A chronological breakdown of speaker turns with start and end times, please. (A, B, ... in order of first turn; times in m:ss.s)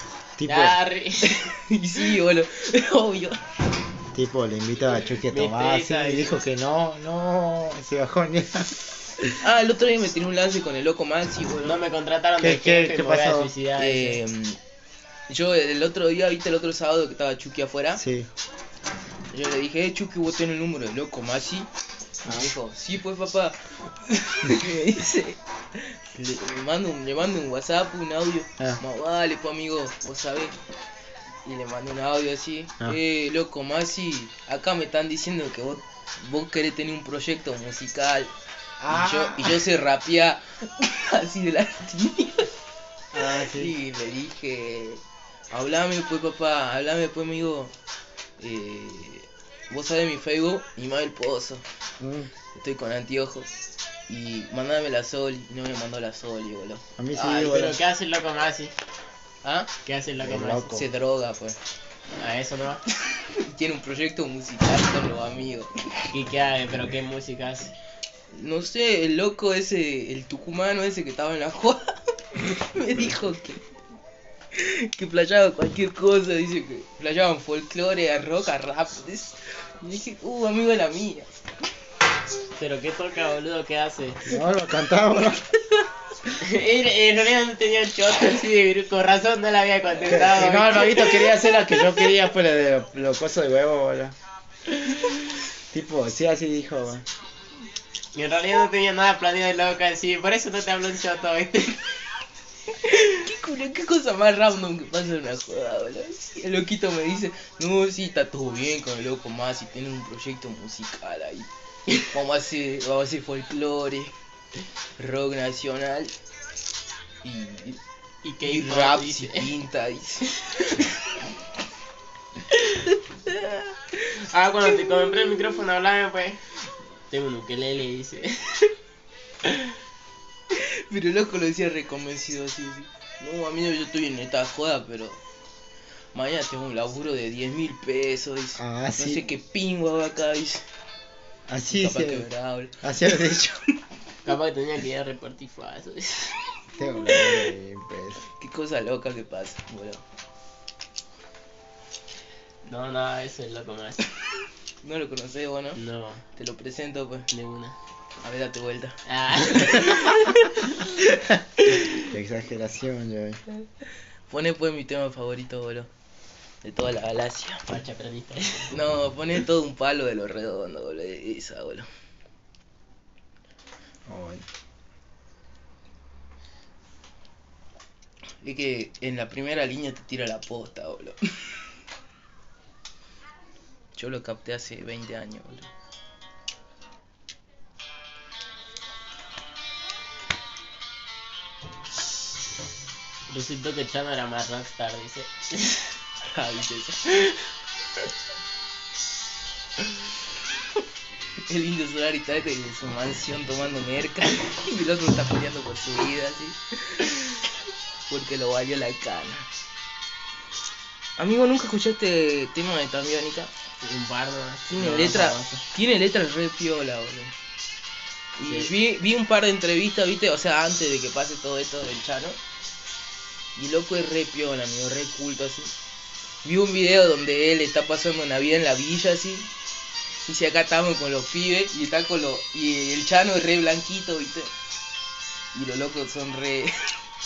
0:00.4-0:00.8 A
0:00.4-0:01.5 B
0:01.2-0:03.4 C
0:04.1-0:08.8 A
0:05.0-0:06.4 B
0:09.3-0:11.8 C
0:11.6-0:14.2 B
0:12.4-0:13.5 A
0:13.8-0:14.6 C
0:15.3-0:18.0 C
0:18.0-0:18.3 A
0:19.3-0:21.7 C
0:22.2-0:22.5 A
0:22.2-0:30.6 C
0:31.4-0:38.3 C
0:38.8-0:39.6 A
0:38.9-0:42.5 C
0:43.1-0:43.7 A
0:43.2-0:47.7 C
0:48.4-0:51.6 C
0:52.0-0:52.3 A
0:52.5-0:53.5 C
0:54.1-0:56.8 C
0:57.0-0:57.8 A
0:57.1-0:58.7 B
0:59.4-0:59.7 C
0:59.8-1:00.7 B
1:00.2-1:00.9 A
1:00.7-1:01.6 C
1:02.2-1:02.8 B
1:03.1-1:05.8 C
1:06.1-1:07.7 B
1:08.3-1:13.6 C
1:14.5-1:21.3 C
1:22.6-1:24.4 B
1:24.2-1:25.4 A
1:26.4-1:32.1 B
1:30.0-1:34.1 A
1:35.7-1:37.0 A
1:38.1-1:41.9 B
1:42.8-1:54.1 C
1:55.0-1:56.1 C
1:57.2-1:57.8 C
1:58.2-1:59.5 B
1:58.4-2:01.0 C
2:02.7-2:04.0 C
2:04.3-2:06.4 B
2:04.7-2:05.3 C
2:07.1-2:08.7 B
2:10.5-2:15.2 C
2:16.1-2:20.6 C
2:18.6-2:19.2 A
2:21.5-2:22.2 A
2:21.7-2:22.8 C
2:22.8-2:23.6 A
2:24.2-2:26.4 B
2:26.7-2:28.2 A
2:28.4-2:30.0 C
2:32.6-2:34.1 B
2:34.8-2:35.8 C
2:35.8-2:36.2 B
2:36.3-2:37.3 C
2:37.3-2:37.8 B
2:38.2-2:40.6 C
2:39.1-2:40.8 B
2:41.1-2:41.4 A
2:42.0-2:43.4 A
2:44.3-2:45.9 C
2:46.6-2:47.6 C
2:47.7-2:48.7 B
2:48.7-2:51.9 C
2:54.1-2:54.4 A
2:58.4-3:01.2 C
3:04.0-3:05.7 C
3:13.3-3:15.9 B
3:16.2-3:17.5 C
3:21.5-3:27.4 C
3:28.1-3:29.5 C
3:31.2-3:33.5 C
3:33.8-3:35.6 B
3:34.7-3:37.3 C
3:38.4-3:42.4 C
3:38.4-3:38.7 B
3:43.6-3:45.7 C
3:46.4-3:49.5 C
3:50.2-3:54.5 C
3:55.5-3:56.9 C